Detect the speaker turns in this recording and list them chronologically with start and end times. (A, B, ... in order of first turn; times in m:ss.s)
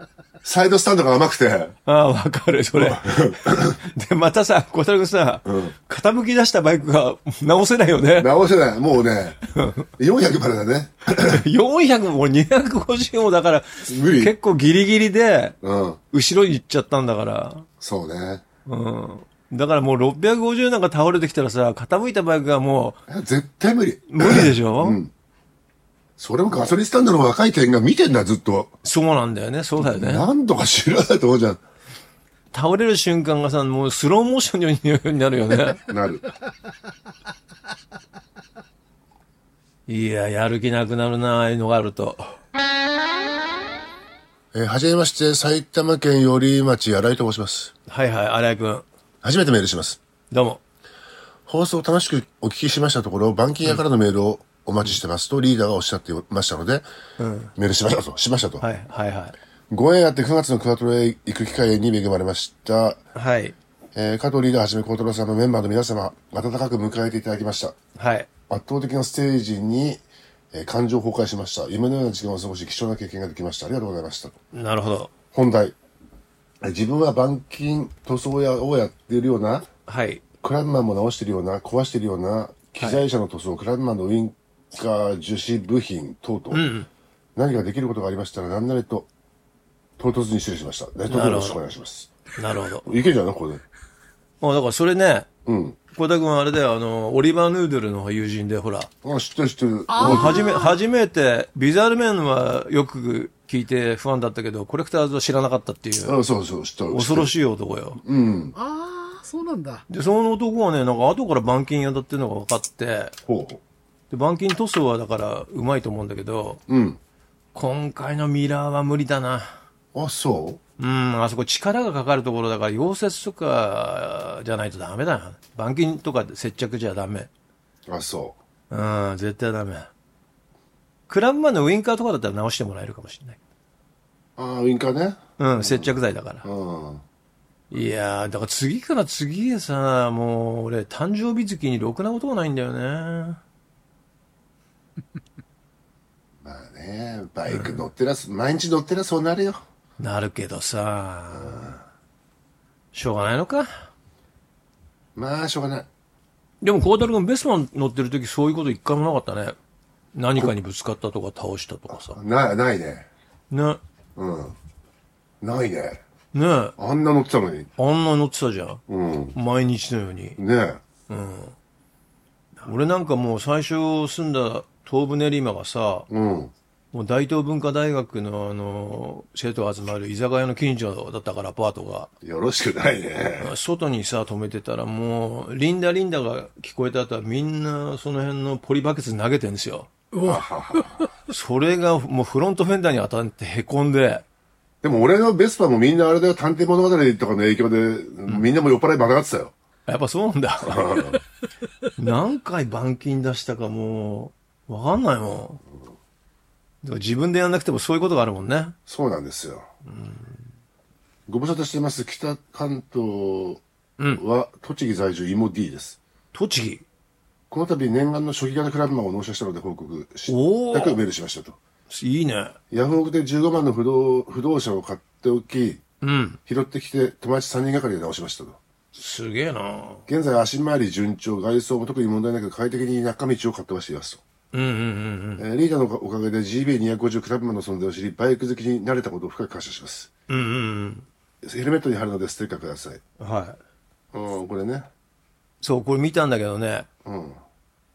0:00.4-0:01.7 A
0:01.8-0:08.3 B
0:02.7-0:03.8 A
0:05.4-0:05.7 A
0:08.2-0:09.4 A
0:09.5-0:09.9 B
0:10.0-0:11.4 A
0:11.1-0:15.6 B
0:13.8-0:14.3 A
0:15.6-0:16.0 A
0:16.1-0:17.7 B
0:17.8-0:18.4 A
0:18.6-0:23.0 B
0:23.1-0:25.1 A
0:24.1-0:25.0 B
0:26.2-0:28.7 A
0:28.8-0:30.2 B
0:29.8-0:31.6 A
0:32.5-0:35.9 B
0:35.9-0:36.2 A
0:39.9-0:42.4 B
0:44.5-0:47.7 A
0:47.9-0:48.8 B
0:49.2-0:50.0 A
0:50.3-0:50.6 B
0:51.5-0:56.8 A
0:57.2-0:57.5 B
0:57.6-0:58.6 A
0:58.6-0:59.3 B
0:59.7-1:03.0 A
1:03.1-1:03.6 B
1:03.9-1:07.7 A
1:08.0-1:08.3 B
1:08.5-1:14.4 A
1:14.5-1:15.1 B
1:15.3-1:15.7 A
1:16.6-1:19.7 A
1:19.9-1:20.2 B
1:20.4-1:26.7 A
1:26.5-1:26.9 B
1:27.4-1:29.1 A
1:30.0-1:32.1 A
1:31.1-1:31.6 B
1:32.4-1:32.9 B
1:32.8-1:33.6 A
1:34.4-1:35.3 B
1:35.4-1:35.8 A
1:35.9-1:38.9 B
1:39.0-1:40.5 A
1:39.9-1:40.8 C
1:40.0-1:46.2 B
1:46.0-1:47.3 A
1:46.9-1:48.0 B
1:48.0-1:48.5 A
1:48.5-1:49.8 C
1:49.9-1:53.1 B
1:53.3-1:53.6 A
1:54.1-1:56.6 B
1:56.7-1:57.0 A
1:57.5-1:59.6 B
1:59.9-2:00.6 A
2:00.8-2:07.3 B
2:07.9-2:08.4 A
2:08.7-2:09.9 B
2:11.1-2:13.4 B
2:14.4-2:17.0 A
2:15.4-2:16.4 B
2:17.7-2:23.4 B
2:26.4-2:29.6 A
2:27.5-2:27.8 B
2:30.0-2:31.8 B
2:31.3-2:31.8 A
2:32.9-2:33.8 B
2:35.1-2:35.9 A
2:36.6-2:39.6 B
2:40.1-2:42.2 B
2:41.9-2:43.1 A
2:43.5-2:43.8 B
2:44.2-2:44.6 A
2:45.4-2:46.0 A
2:46.3-2:46.7 B
2:46.8-2:47.7 A
2:47.8-2:48.8 B
2:48.9-2:49.4 A
2:49.3-2:50.4 B
2:50.4-2:50.8 A
2:51.1-2:51.5 B
2:52.6-2:56.1 B
2:56.1-2:56.5 A
2:56.9-3:02.1 B
3:02.2-3:03.5 A
3:03.4-3:09.9 B
3:10.1-3:11.1 C
3:10.2-3:11.1 A
3:11.3-3:14.2 B
3:14.8-3:19.5 A
3:19.9-3:21.2 B
3:20.6-3:21.2 A
3:22.0-3:25.6 B
3:26.8-3:28.8 B
3:28.9-3:29.7 A
3:29.8-3:30.4 B
3:31.3-3:33.6 A
3:34.2-3:36.0 A
3:36.3-3:36.8 B
3:37.5-3:41.6 A
3:40.3-3:41.0 B
3:41.9-3:42.6 B
3:42.7-3:45.8 A
3:46.0-3:46.4 B
3:46.5-3:48.6 A
3:48.9-3:50.0 B
3:50.1-3:54.2 A
3:54.5-3:55.4 B
3:55.4-4:00.1 A
4:00.3-4:01.0 B
4:01.4-4:03.0 A
4:03.2-4:03.6 B
4:04.1-4:04.9 A
4:05.6-4:06.9 B
4:07.0-4:07.4 A